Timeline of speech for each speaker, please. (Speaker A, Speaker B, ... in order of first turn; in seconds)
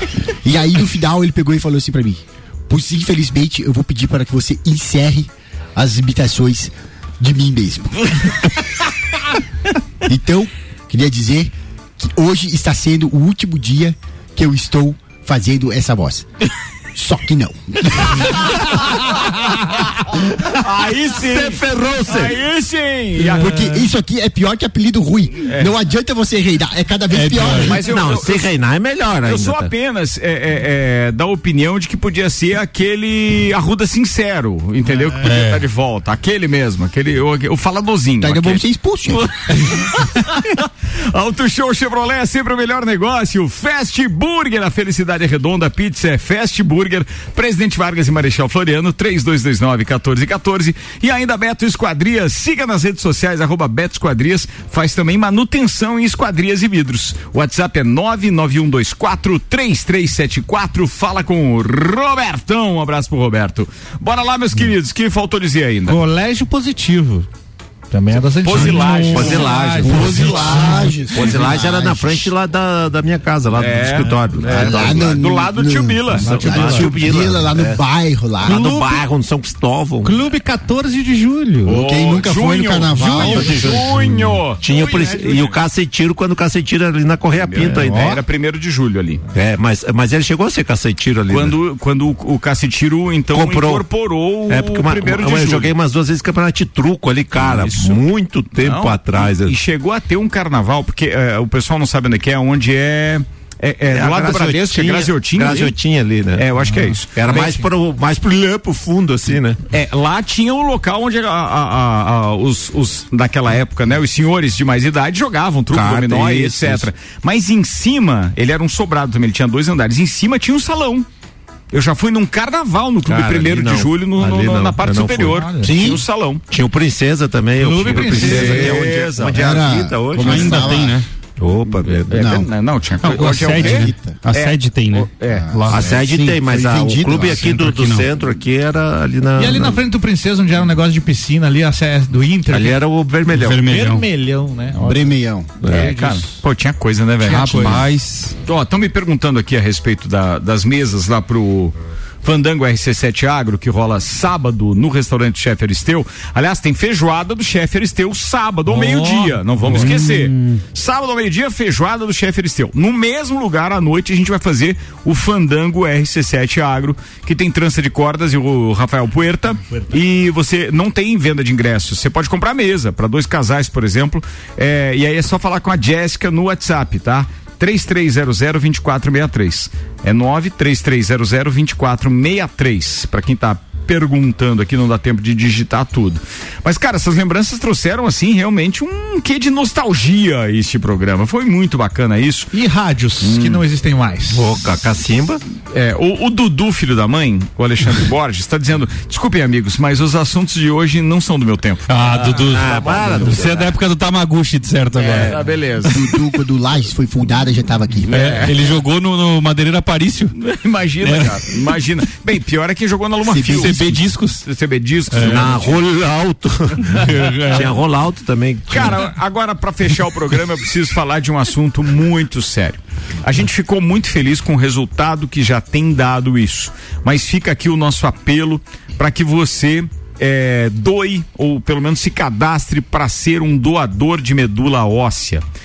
Speaker A: 0.4-8.4, 10.0-16.2, 16.9-19.2, 23.2-27.9, 38.2-39.3, 69.8-72.3, 74.4-78.6, 81.7-84.1, 125.6-126.0, 129.3-131.0, 132.0-132.5, 133.4-134.2, 135.3-137.5, 144.8-145.6, 205.8-208.6, 213.2-214.1
Speaker B: 20.4-23.8, 27.6-28.5, 29.2-38.6, 39.1-66.0, 68.4-70.8, 73.5-76.8, 81.7-85.5, 87.3-89.2, 91.3-95.7, 97.4-98.0, 98.6-105.8, 106.3-107.7, 109.7-121.1, 121.7-126.4, 127.9-129.8, 132.1-135.6, 145.7-147.8, 148.4-192.5, 193.2-193.6, 195.7-203.4, 204.9-206.0, 208.1-208.7, 210.4-215.8, 218.7-235.4
Speaker C: 21.1-22.4, 27.8-29.7, 68.5-75.3, 76.3-77.8, 78.4-80.3, 83.0-84.0, 84.6-88.2, 89.3-91.5, 93.3-93.8, 94.5-99.5, 103.9-106.5, 107.1-109.6, 115.7-116.9, 123.0-125.5, 126.5-130.7, 131.4-132.4, 135.7-139.8, 142.5-143.6, 145.6-146.2, 194.3-195.4, 202.5-203.7, 215.2-219.1
Speaker D: 27.1-27.8, 35.2-35.6, 130.1-131.1, 133.0-136.4, 137.2-138.1, 143.3-144.1, 147.2-148.3, 159.7-160.6, 201.9-205.4, 208.1-210.3, 211.0-211.4, 213.4-214.4, 215.1-215.4, 216.9-217.7
Speaker E: 65.8-67.3, 67.9-71.0, 76.2-76.9, 78.4-79.0, 80.0-81.8, 83.0-83.5, 84.6-85.5, 87.6-88.2, 106.7-107.0, 125.2-125.7, 127.6-128.8, 139.4-142.8, 143.6-146.3, 147.2-147.8, 158.7-159.9, 192.5-194.4